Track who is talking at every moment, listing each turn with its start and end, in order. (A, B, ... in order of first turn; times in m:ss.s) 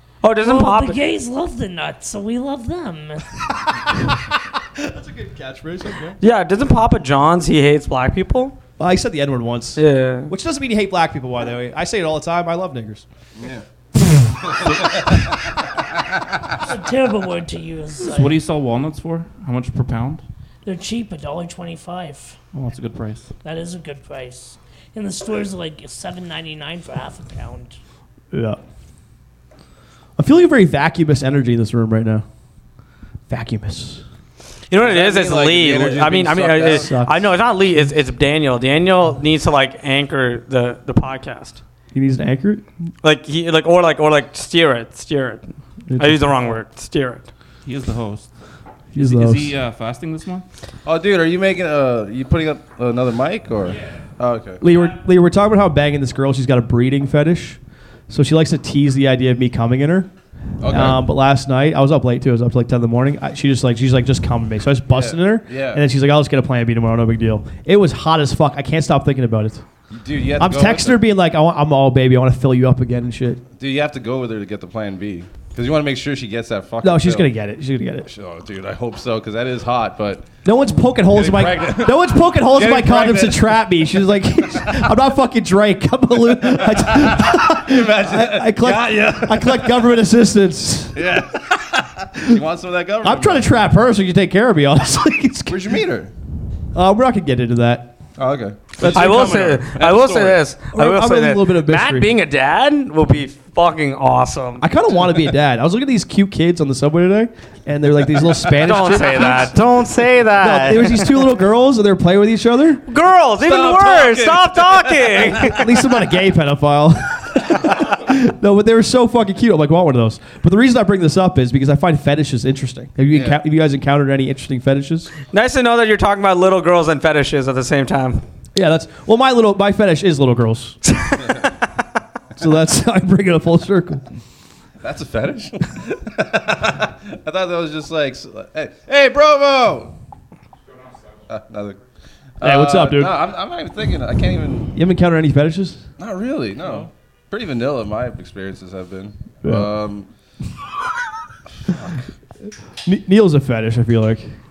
0:00.2-0:01.0 A
0:00.4-0:03.4 B
0:04.8-0:06.2 C
0:06.2-0:08.6 A
0:08.8-0:13.0 C
0:09.8-0:10.3 A
0:13.4-0:13.6 D
0:14.4-0:15.4 D
0:14.6-0:15.0 E
0:16.1-0:16.4 D
0:16.6-0:18.4 B
0:18.0-0:20.2 E
0:20.6-0:22.4 B
0:22.5-0:23.3 E
0:23.4-0:27.8 B
0:28.3-0:28.6 C
0:30.2-0:32.2 C
0:33.3-0:34.0 C
0:34.7-0:41.6 A
0:34.8-0:36.9 D
0:36.8-0:37.3 C
0:41.9-0:42.6 C
0:43.0-0:45.4 A
0:45.9-0:46.6 C
0:46.0-0:47.3 A
0:47.6-0:48.3 E
0:48.9-0:49.5 C
0:49.0-0:50.4 E
0:50.8-0:54.6 D
0:54.6-1:00.1 C
1:00.6-1:01.0 D
1:00.7-1:09.6 C
1:04.9-1:05.8 D
1:09.9-1:11.0 D
1:10.4-1:13.4 C
1:13.6-1:17.3 D
1:16.8-1:18.1 C
1:18.0-1:20.3 D
1:20.4-1:31.0 C
1:21.1-1:24.8 D
1:26.2-1:30.0 D
1:30.9-1:33.5 D
1:33.0-1:35.8 C
1:35.5-1:36.1 D
1:36.7-1:38.0 C
1:38.2-1:40.5 D
1:38.8-1:39.6 C
1:38.8-1:44.6 A
1:40.7-1:42.1 C
1:44.6-1:49.7 C
1:48.6-1:51.2 A
1:50.4-1:52.8 C
1:52.9-1:55.6 A
1:53.4-1:55.8 D
1:55.3-2:05.1 C
2:03.1-2:03.4 D
2:05.3-2:08.2 A
2:08.5-2:10.8 C
2:12.4-2:14.0 C
2:14.8-2:19.9 D
2:21.3-2:21.8 D
2:22.4-2:24.8 D
2:22.4-2:23.2 C
2:24.8-2:25.9 C
2:26.0-2:30.1 D
2:29.4-2:29.7 C
2:31.6-2:32.0 D
2:32.8-2:34.3 C